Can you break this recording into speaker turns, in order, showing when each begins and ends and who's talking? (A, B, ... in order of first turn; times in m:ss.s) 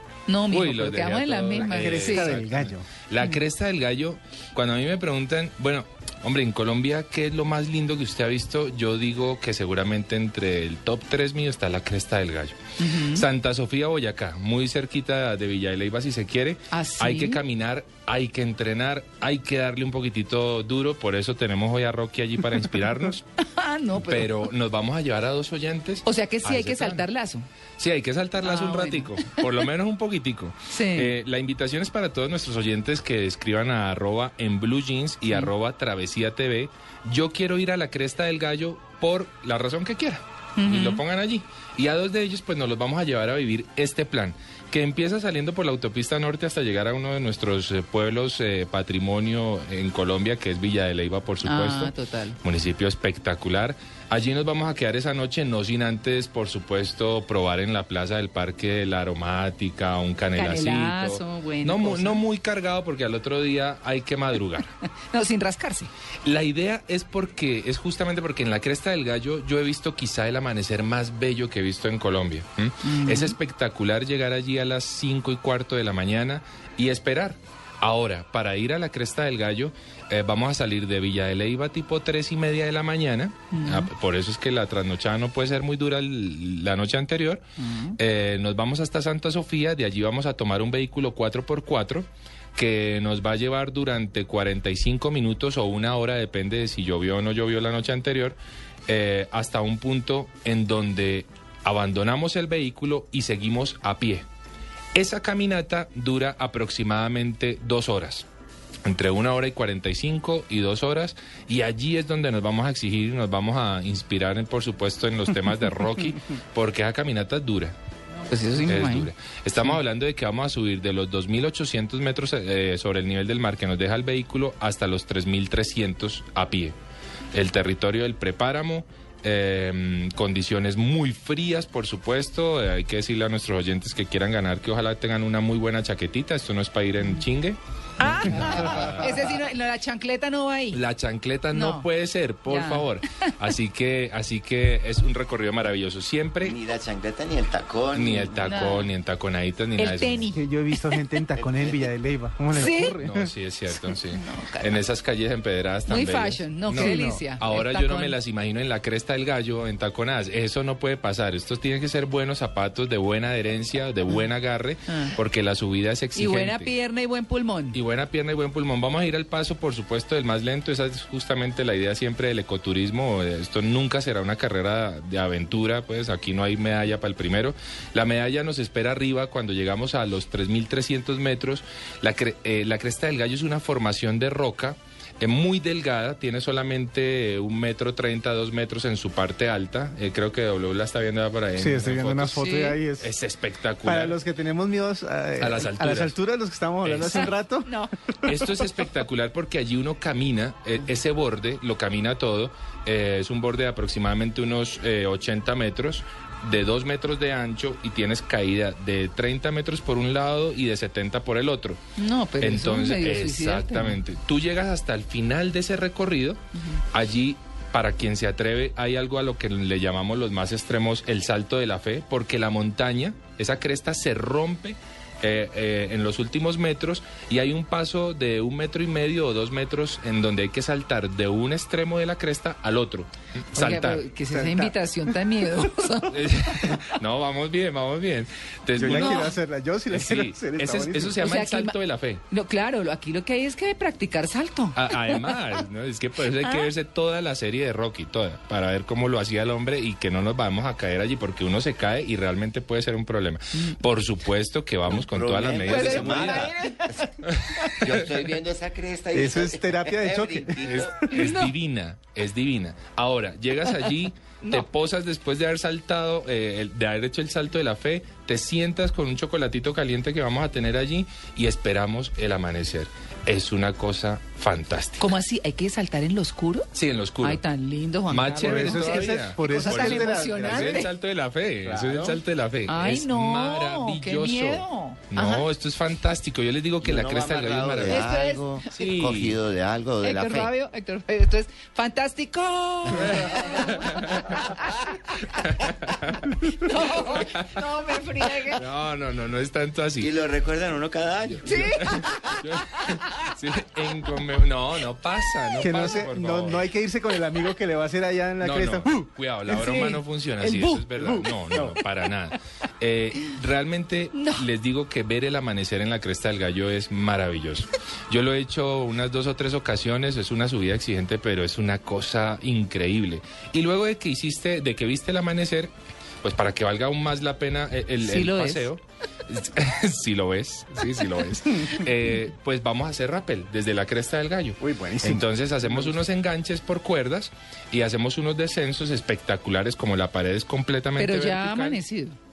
0:00.3-0:02.4 A
0:00.5-0:12.6 B
0:01.6-0:02.9 C
0:12.8-0:13.3 A
0:13.1-0:23.2 B
0:16.7-0:17.4 A
0:23.4-0:24.3 A
0:24.0-0:27.1 B
0:26.0-0:27.5 A
0:27.8-1:04.7 B
0:28.4-0:29.4 A
0:30.7-0:31.1 A
0:40.6-0:41.0 A
0:51.4-0:52.4 A
1:00.3-1:02.2 A
1:05.0-1:05.9 A
1:06.2-1:27.4 B
1:12.8-1:13.4 A
1:23.5-1:23.9 A
1:27.6-1:28.0 A
1:28.0-1:38.4 B
1:38.9-1:44.3 B
1:45.0-1:48.3 B
1:48.8-1:57.8 B
1:58.3-1:59.1 A
1:58.7-2:06.8 B
2:07.3-2:17.6 B
2:18.0-2:20.8 A
2:18.1-2:19.1 B
2:20.7-2:26.6 B
2:21.5-2:21.9 A
2:22.5-2:23.3 A
2:26.4-2:28.4 D
2:27.9-2:30.4 B
2:28.4-2:28.9 A
2:29.8-2:31.0 A
2:30.4-2:33.3 C
2:31.4-2:31.9 D
2:32.5-2:33.0 A
2:33.0-2:46.7 B
2:33.9-2:34.8 A
2:35.9-2:38.2 A
2:36.7-2:37.2 C
2:44.9-2:45.1 A
2:46.2-2:47.8 A
2:47.7-3:14.2 B
3:11.6-3:13.1 C
3:13.8-3:17.7 C
3:15.4-3:16.2 B
3:16.8-3:17.3 B
3:17.1-3:17.9 A
3:18.2-3:31.8 B
3:32.0-3:34.0 A
3:32.4-3:36.4 B
3:36.9-3:54.1 B
3:53.5-3:56.7 A
3:54.3-3:54.7 C
3:56.1-3:59.4 B
3:58.8-4:01.2 C
3:58.8-3:59.3 A
3:59.9-4:02.2 B
4:01.2-4:01.8 A
4:02.3-4:05.2 A
4:04.8-4:16.5 B
4:06.4-4:06.7 A
4:15.0-4:16.6 D
4:15.6-4:17.1 A
4:17.3-4:17.7 B
4:17.8-4:21.0 D
4:19.1-4:21.1 C
4:20.6-4:35.1 B
4:21.1-4:21.5 A
4:24.4-4:24.7 A
4:35.0-4:36.7 A
4:36.7-4:37.4 B
4:37.2-4:40.9 A
4:38.1-4:48.1 B
4:38.4-4:40.8 C
4:41.6-4:42.2 C
4:42.7-4:45.5 A
4:46.8-4:50.5 D
4:47.8-4:48.8 A
4:48.7-4:49.4 B
4:50.0-4:54.9 A
4:52.9-4:54.4 B
4:55.4-4:56.5 B
4:56.5-4:58.7 A
4:57.1-4:57.5 B
4:58.6-5:00.1 B
5:00.0-5:02.3 D
5:01.3-5:06.7 B
5:01.4-5:02.1 A
5:02.7-5:03.0 A
5:05.6-5:09.1 C
5:08.4-5:25.7 B
5:09.5-5:11.0 A
5:11.1-5:11.7 C
5:14.1-5:14.4 A
5:26.2-5:41.8 B
5:28.0-5:28.7 A
5:34.6-5:35.2 C
5:41.0-5:42.2 A